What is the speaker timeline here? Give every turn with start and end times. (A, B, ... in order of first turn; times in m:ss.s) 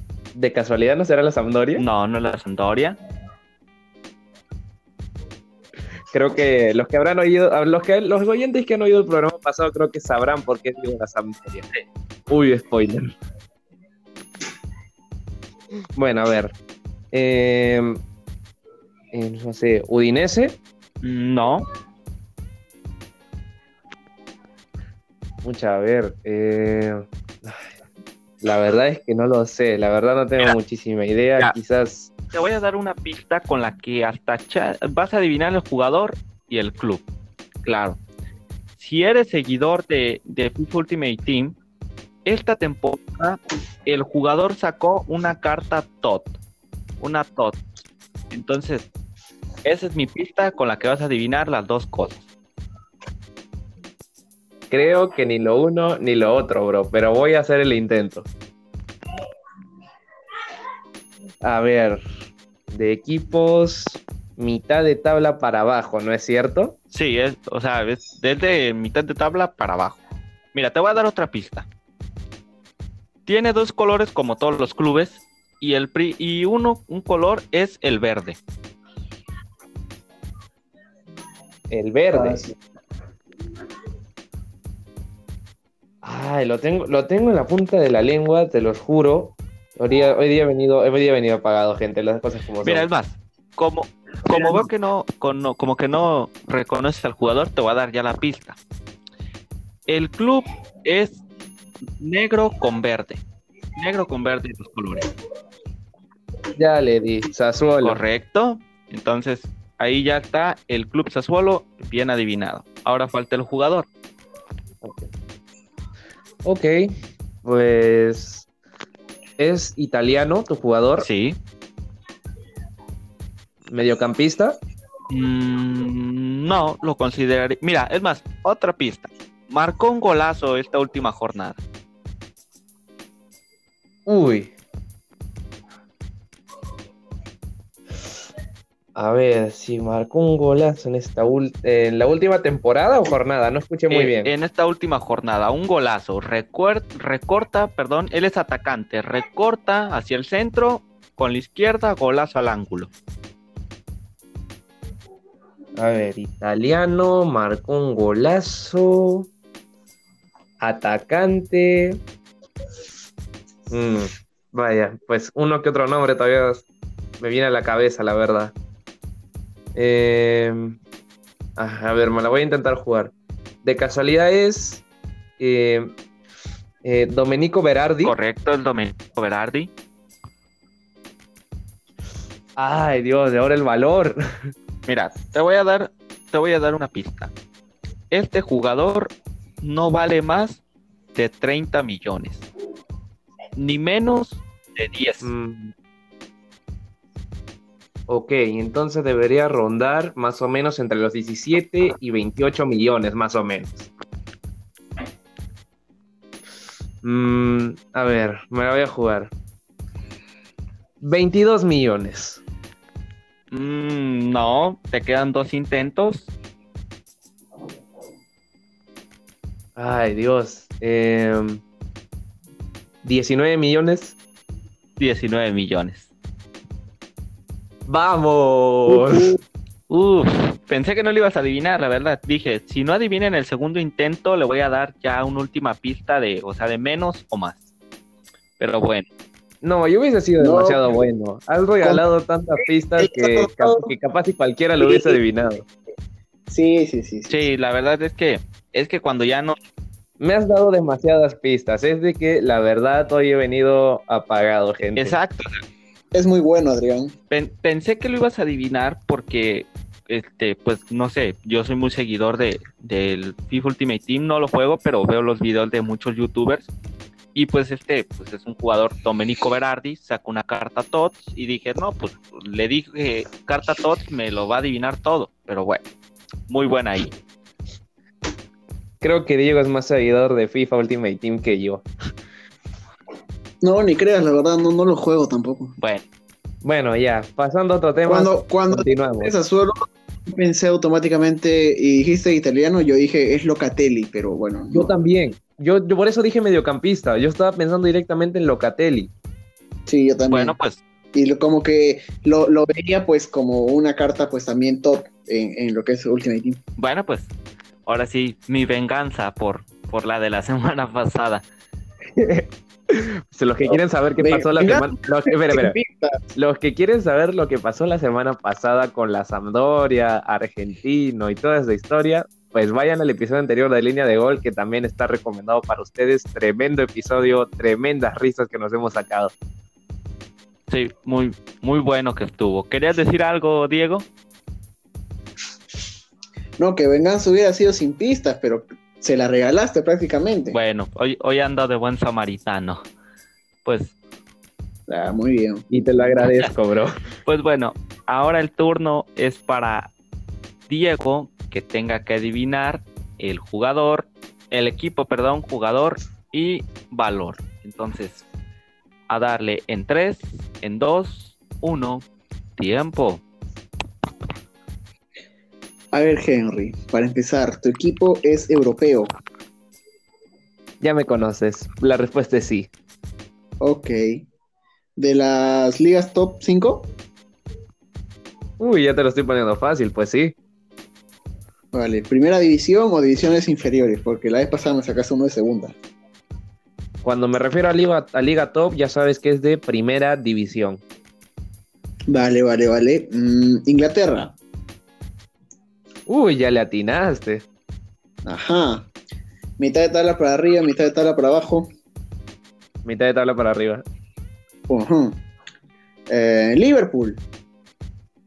0:00.4-0:01.8 A
0:01.8-0:03.0 B
0:06.1-0:11.7 A
0:12.3-0:13.1 A
0:16.0-0:16.6 A
0:17.1-0:18.0 A
0:19.1-0:20.6 A
0:21.0-0:21.7 B
0:25.4-0:27.7 A
0:28.4-0:32.1 A
0:32.3-0:37.0 B
0:37.6-0:38.0 B
0:38.8-0:41.6 B
0:42.2-0:46.3 B
0:47.0-0:47.6 B
0:48.3-0:48.9 B
0:49.6-0:52.2 B
0:54.7-0:58.3 A
1:01.4-1:02.0 A
1:02.7-1:06.8 A
1:06.9-1:10.0 B
1:10.5-1:11.7 B
1:13.3-1:18.4 B
1:21.7-1:22.4 A
1:22.1-1:22.5 C
1:26.0-1:32.9 A
1:32.6-1:38.6 B
1:39.9-1:41.2 B
1:42.0-1:43.2 B
1:43.8-1:45.1 B
1:46.6-1:48.0 A
1:47.8-1:53.9 B
1:54.8-1:55.1 A
1:56.4-1:58.5 A
1:59.4-2:01.1 A
2:01.0-2:01.4 B
2:03.7-2:04.6 A
2:05.1-2:11.6 B
2:14.1-2:14.5 A
2:19.0-2:24.3 A
2:23.9-2:32.9 B
2:35.8-2:39.3 A
2:40.6-2:42.0 A
2:43.7-2:46.7 A
2:47.2-2:48.5 A
2:49.8-2:50.8 A
2:51.6-2:54.8 A
2:55.4-2:55.9 A
2:56.8-2:58.1 A
2:58.0-2:59.7 B
3:02.6-3:04.5 A
3:04.9-3:07.3 B
3:08.1-3:10.6 B
3:11.2-3:12.5 B
3:13.6-3:15.3 B
3:15.2-3:15.7 A
3:18.1-3:23.9 A
3:27.0-3:29.3 A
3:31.0-3:32.4 A
3:33.5-3:36.3 B
3:39.8-3:41.6 A
3:43.0-3:44.2 A
3:45.0-3:46.1 B
3:47.9-3:49.3 A
3:48.9-3:49.3 B
3:49.9-3:57.6 B
3:58.6-3:59.1 B
3:59.6-4:05.7 A
4:00.4-4:01.0 C
4:02.6-4:03.9 C
4:04.8-4:05.2 C
4:06.5-4:07.4 C
4:07.3-4:09.6 B
4:10.2-4:15.2 A
4:15.0-4:15.6 B
4:16.1-4:17.2 C
4:17.3-4:26.7 B
4:27.4-4:35.8 B
4:36.5-4:37.1 B
4:39.0-4:41.9 A
4:43.6-4:45.8 C
4:45.8-4:46.0 B
4:46.6-4:49.3 A
4:48.1-4:54.9 C
4:54.7-4:59.1 A
4:59.9-5:00.6 C
5:00.3-5:00.8 B
5:01.1-5:06.6 C
5:06.8-5:07.3 B
5:07.9-5:11.4 B
5:12.1-5:15.8 A
5:13.7-5:16.2 C
5:16.4-5:29.3 A
5:30.7-5:34.1 B
5:36.6-5:40.6 C
5:40.5-5:42.8 B
5:43.6-5:44.0 B
5:44.9-5:45.7 C
5:45.7-5:47.0 A
5:46.2-5:46.5 B
5:47.2-5:49.9 B
5:50.7-5:58.3 B
5:59.1-6:02.0 B
6:02.6-6:03.2 B
6:05.9-6:09.1 C
6:10.8-6:12.7 A
6:13.6-6:14.3 C
6:15.0-6:16.9 C
6:18.6-6:20.4 A
6:21.7-6:25.8 C
6:27.0-6:30.8 A
6:32.1-6:34.4 C
6:36.1-6:37.5 A
6:38.2-6:38.9 C
6:39.6-6:41.7 C
6:42.8-6:43.8 A
6:44.7-6:45.2 C
6:46.1-6:47.2 C